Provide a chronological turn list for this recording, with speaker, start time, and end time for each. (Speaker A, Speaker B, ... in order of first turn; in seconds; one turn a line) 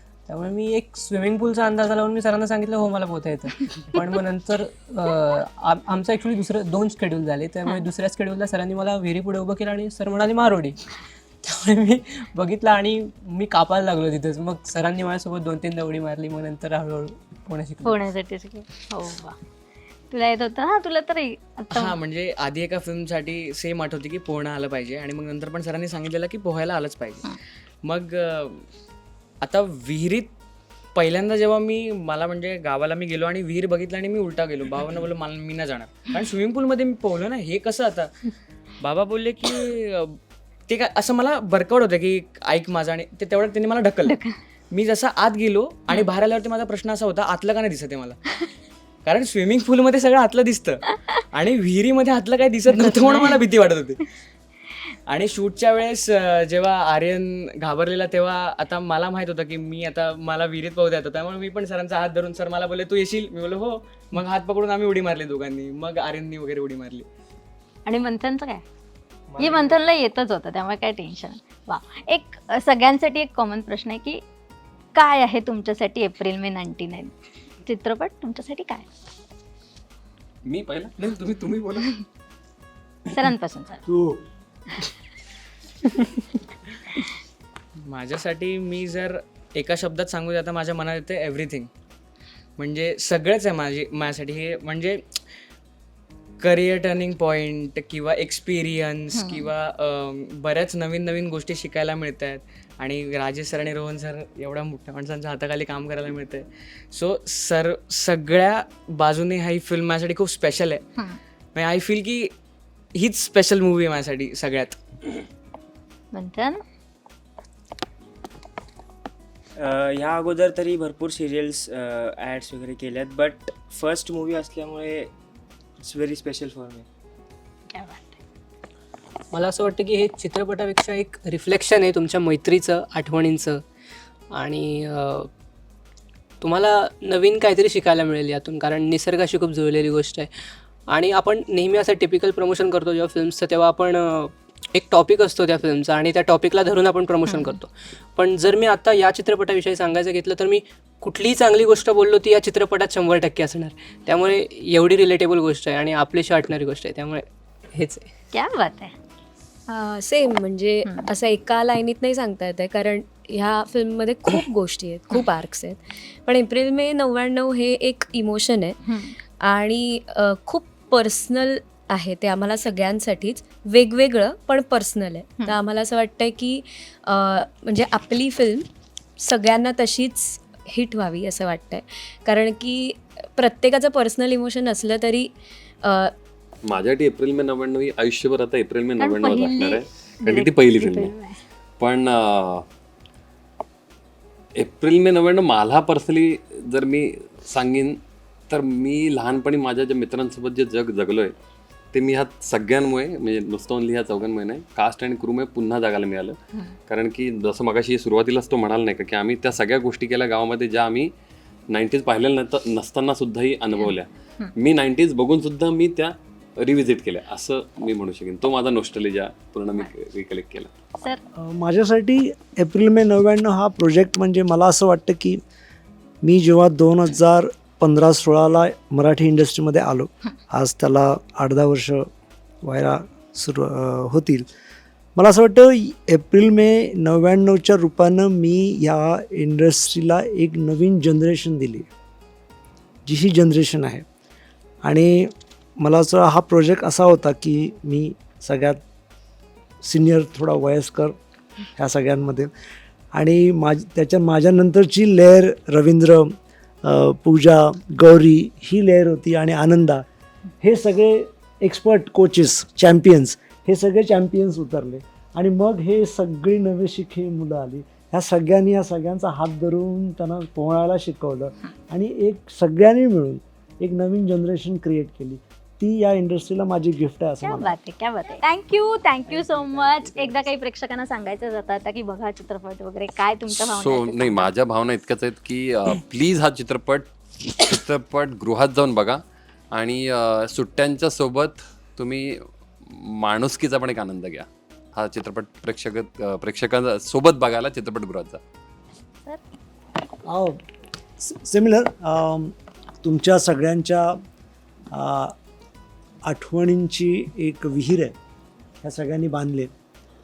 Speaker A: 0.3-10.8
Speaker A: 11.4-18.0
Speaker B: 17.8-19.4
Speaker B: 20.1-21.9
Speaker C: 21.7-27.3
Speaker C: 27.8-28.6
Speaker C: 29.4-30.3
Speaker C: 30.9-38.1
Speaker C: 38.8-44.2
Speaker B: 44.0-44.3
Speaker C: 44.7-48.2
Speaker C: 49.0-50.8
Speaker C: 51.3-54.0
Speaker B: 52.8-53.4
Speaker C: 55.1-67.1
Speaker B: 67.8-68.6
Speaker D: 69.3-69.8
Speaker B: 69.4-74.2
Speaker B: 74.9-77.1
Speaker B: 77.6-78.8
Speaker E: 80.5-81.9
Speaker B: 83.1-83.8
Speaker F: 83.8-84.2
Speaker C: 87.8-91.7
Speaker C: 92.6-95.0
Speaker C: 96.4-110.8
Speaker B: 99.1-99.5
Speaker C: 111.5-112.3
Speaker C: 112.9-114.8
Speaker B: 116.1-116.6
Speaker D: 119.6-125.1
Speaker D: 125.8-126.8
Speaker B: 127.7-128.1
Speaker A: 129.3-133.6
Speaker A: 134.3-135.3
Speaker A: 136.4-140.3
Speaker A: 140.9-158.1
Speaker B: 147.3-147.6
Speaker B: 158.3-158.9
Speaker G: 159.7-168.8
Speaker B: 168.8-169.1
Speaker G: 169.4-178.7
Speaker G: 179.2-185.3
Speaker G: 185.8-186.1
Speaker E: 186.7-191.1
Speaker B: 189.0-191.4
Speaker E: 191.8-192.6
Speaker E: 194.6-201.3
Speaker E: 201.9-206.4
Speaker E: 206.9-211.1
Speaker E: 211.7-220.7
Speaker F: 221.3-225.4
Speaker F: 226.2-232.1
Speaker F: 232.6-234.5
Speaker F: 235.2-241.9
Speaker F: 243.1-244.0
Speaker F: 244.8-248.8
Speaker F: 249.8-251.2
Speaker F: 251.8-252.5
Speaker F: 253.1-260.0
Speaker F: 260.6-277.7
Speaker B: 277.4-284.5
Speaker F: 279.3-280.4
Speaker E: 283.6-298.4
Speaker F: 300.2-300.6
Speaker F: 301.2-304.2
Speaker F: 304.9-305.4
Speaker F: 306.2-308.1
Speaker F: 308.8-309.7